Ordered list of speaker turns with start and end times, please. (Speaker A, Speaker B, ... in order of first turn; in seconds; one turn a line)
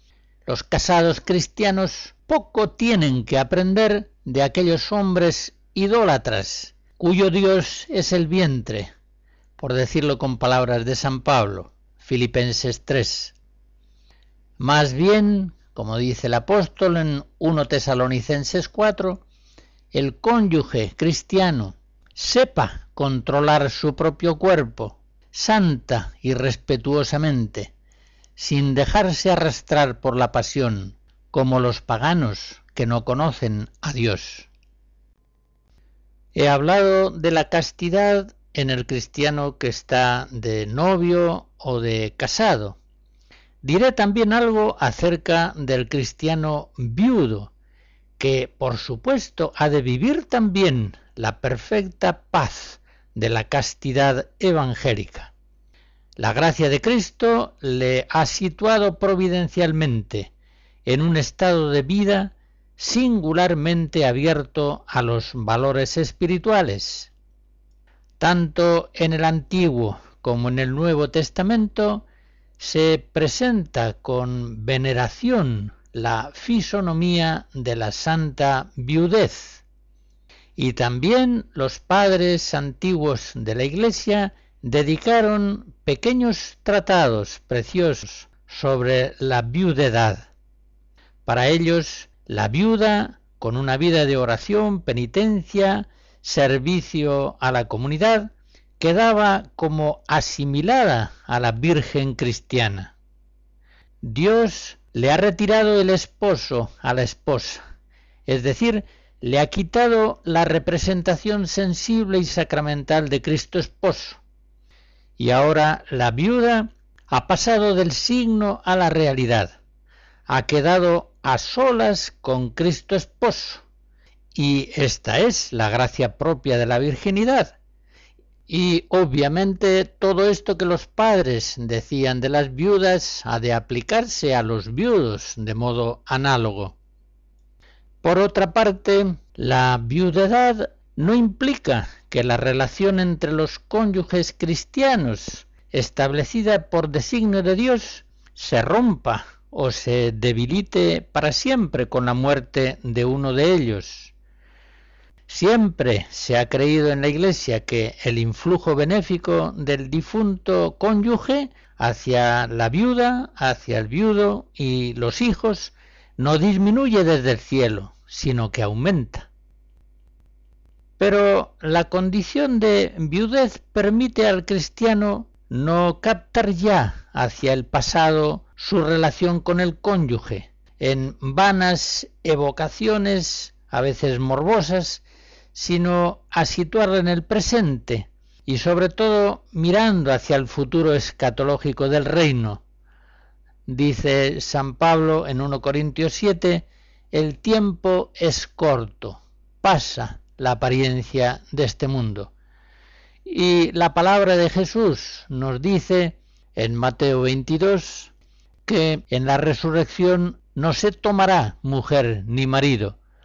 Speaker A: 0.5-8.9
Speaker A: 9.6-13.3
Speaker A: 14.6-19.2
Speaker A: 19.9-27.7
Speaker A: 28.4-34.5
Speaker A: 36.4-42.8
Speaker A: 43.6-47.5
Speaker A: 48.2-55.3
Speaker A: 56.2-60.3
Speaker A: 60.9-67.1
Speaker A: 68.2-72.0
Speaker A: 72.6-79.6
Speaker A: 80.6-90.3
Speaker A: 91.3-102.9
Speaker A: 104.0-107.6
Speaker A: 108.3-114.2
Speaker A: 115.2-119.6
Speaker A: 120.3-123.6
Speaker A: 124.3-127.6
Speaker A: 128.5-136.8
Speaker A: 138.0-154.1
Speaker A: 155.3-169.3
Speaker A: 171.0-192.6
Speaker A: 193.7-202.3
Speaker A: 203.2-208.1
Speaker A: 208.7-213.0